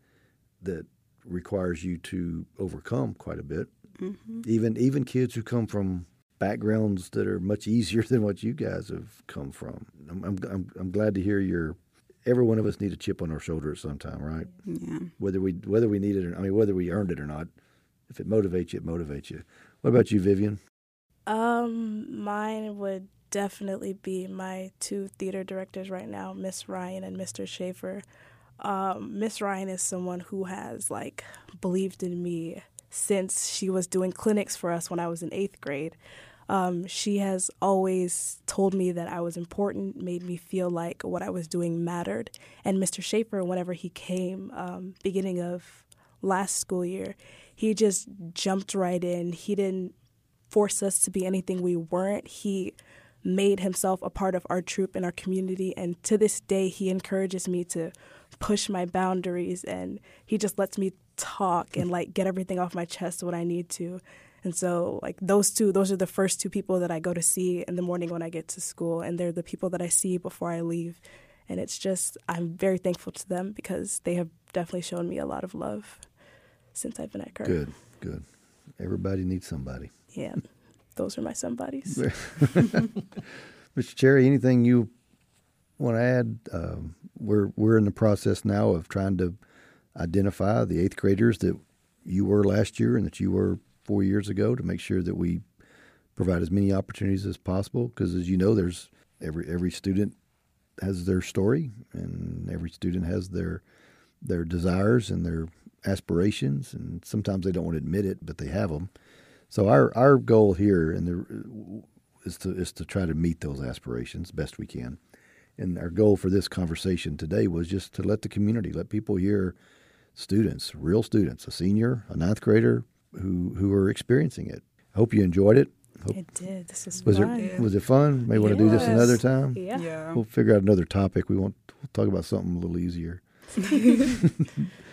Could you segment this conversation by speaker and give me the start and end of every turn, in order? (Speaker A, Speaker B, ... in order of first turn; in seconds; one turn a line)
Speaker A: 0.6-3.7
Speaker B: 4.0-4.5
Speaker A: 4.4-14.5
Speaker B: 14.7-15.1
Speaker A: 15.2-17.5
Speaker A: 18.1-20.6
Speaker C: 21.3-28.0
Speaker C: 28.6-36.0
Speaker C: 36.5-49.9
Speaker C: 50.5-76.0
Speaker C: 76.7-77.6
Speaker A: 77.4-78.2
Speaker A: 78.8-79.9
Speaker C: 80.1-82.1
Speaker A: 81.9-82.9
Speaker A: 83.7-84.9
Speaker A: 85.8-89.4
Speaker A: 89.9-95.4
Speaker A: 96.2-100.1
Speaker A: 100.8-103.6
Speaker A: 104.2-108.9
Speaker A: 109.5-115.0
Speaker A: 115.6-119.5
Speaker A: 120.1-126.2
Speaker C: 126.1-127.6
Speaker B: 127.0-127.7
Speaker A: 127.0-133.2
Speaker C: 128.3-129.8
Speaker B: 128.3-130.2
Speaker A: 134.1-134.7